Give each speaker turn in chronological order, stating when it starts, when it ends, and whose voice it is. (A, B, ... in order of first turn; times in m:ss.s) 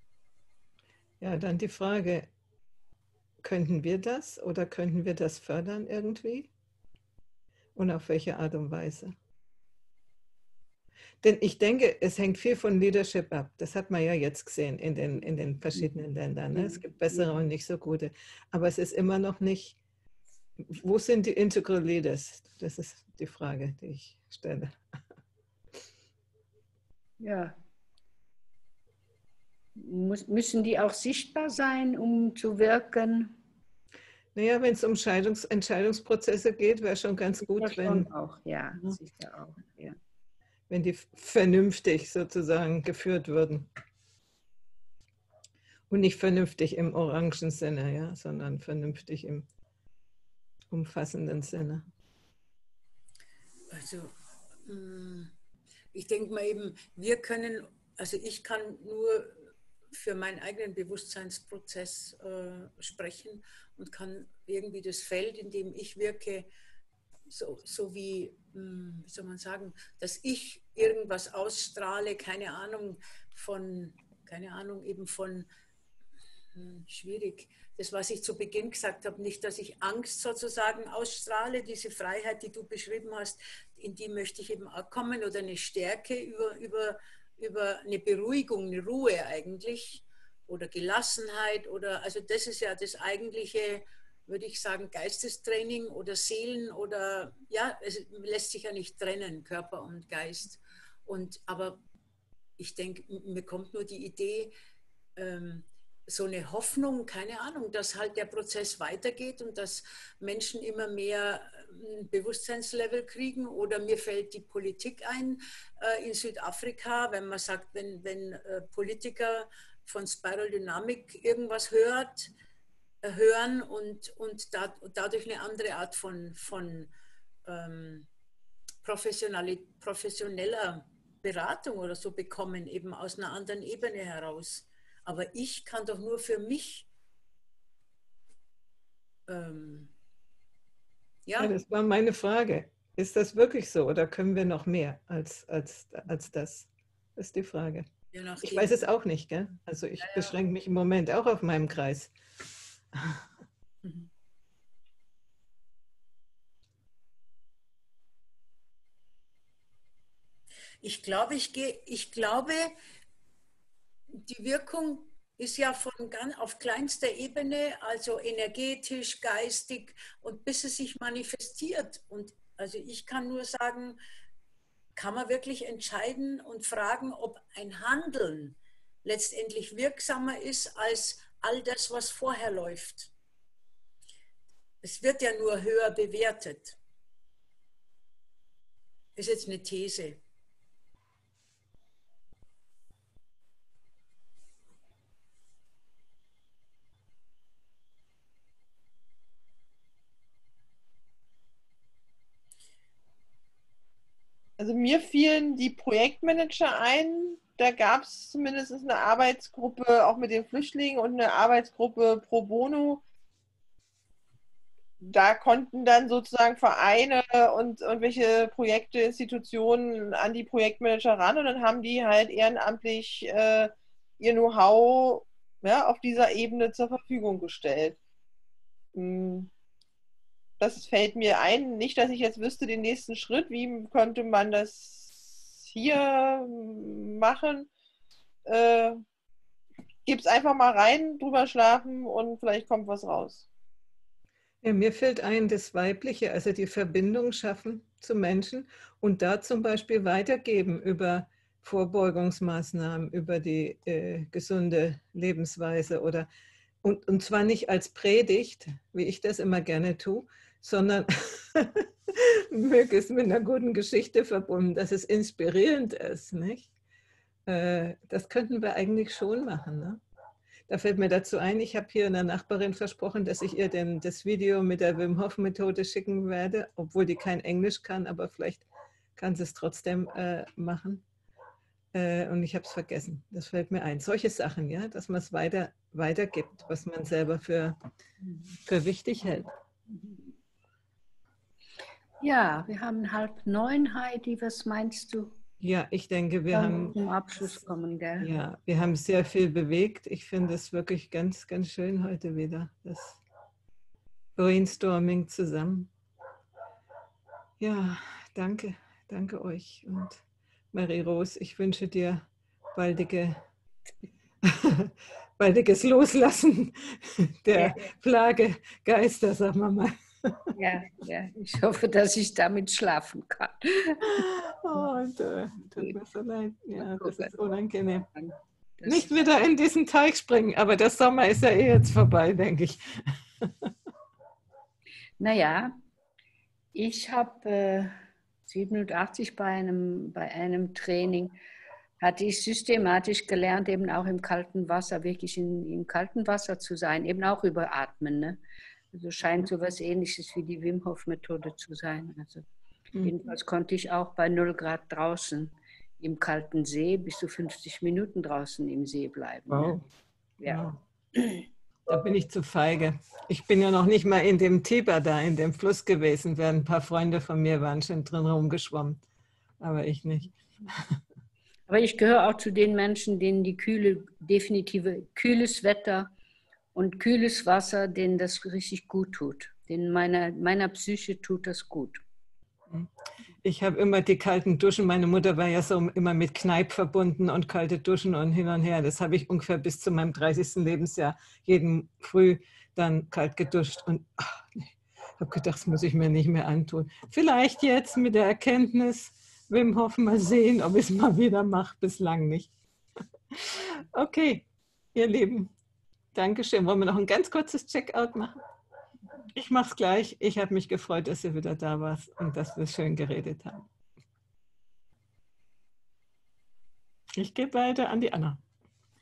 0:01.2-0:02.3 A
0:03.4-0:06.5 A
0:07.8-0:09.2 A
0:11.2-0:19.8 A
0:16.5-0:17.3 B
0:20.6-0:24.8 A
0:27.2-0:27.6 B
0:29.8-0:33.4 B
0:34.4-0:38.1 A
0:37.4-0:40.0 B
0:40.7-0:43.7 A
0:45.9-0:49.5 A
0:50.7-0:51.9 A
0:53.7-0:54.1 C
0:54.6-0:55.3 C
0:55.9-1:06.5 C
1:07.3-1:15.5 C
1:16.5-1:41.8 C
1:42.6-1:44.5 C
1:45.2-2:02.3 C
2:03.0-2:06.9 C
2:07.5-2:08.1 C
2:08.8-2:16.9 C
2:19.3-2:19.9 C
2:21.3-2:21.5 C
2:21.4-2:27.9 A
2:28.1-2:28.8 C
2:28.4-2:32.1 A
2:30.0-2:30.3 C
2:40.8-2:42.7 C
2:44.1-2:54.0 C
2:55.0-3:03.1 C
3:04.8-3:06.8 C
3:09.2-3:10.2 C
3:24.6-3:33.0 D
3:35.0-3:48.0 D
3:49.0-3:49.5 D
3:50.6-3:57.7 D
3:58.5-3:59.0 D
4:00.1-4:03.4 D
4:04.6-4:16.3 A
4:16.8-4:26.7 A
4:27.5-4:30.0 A
4:30.7-4:41.0 A
4:41.9-4:47.8 A
4:48.7-4:49.5 A
4:52.2-4:55.4 B
4:55.6-4:57.0 A
4:56.5-4:58.3 B
4:58.2-5:03.2 A
5:04.4-5:05.9 A
5:07.6-5:13.4 A
5:14.4-5:20.5 A
5:17.5-5:17.9 B
5:20.6-5:24.3 B
5:24.2-5:28.1 A
5:26.8-5:27.3 B
5:28.2-5:29.1 B
5:28.8-5:33.7 A
5:35.2-5:35.8 B
5:36.7-5:41.4 B
5:42.0-5:52.5 B
5:53.0-5:53.2 A
5:53.0-5:59.8 B
5:59.5-5:59.8 A
6:00.5-6:00.8 A
6:01.2-6:01.4 B
6:01.9-6:09.0 A
6:09.6-6:10.4 A
6:11.7-6:16.1 B
6:16.7-6:22.0 B
6:23.4-6:42.5 A
6:43.4-6:45.5 A
6:46.1-6:48.4 A
6:49.4-6:53.7 A
6:57.2-6:58.4 A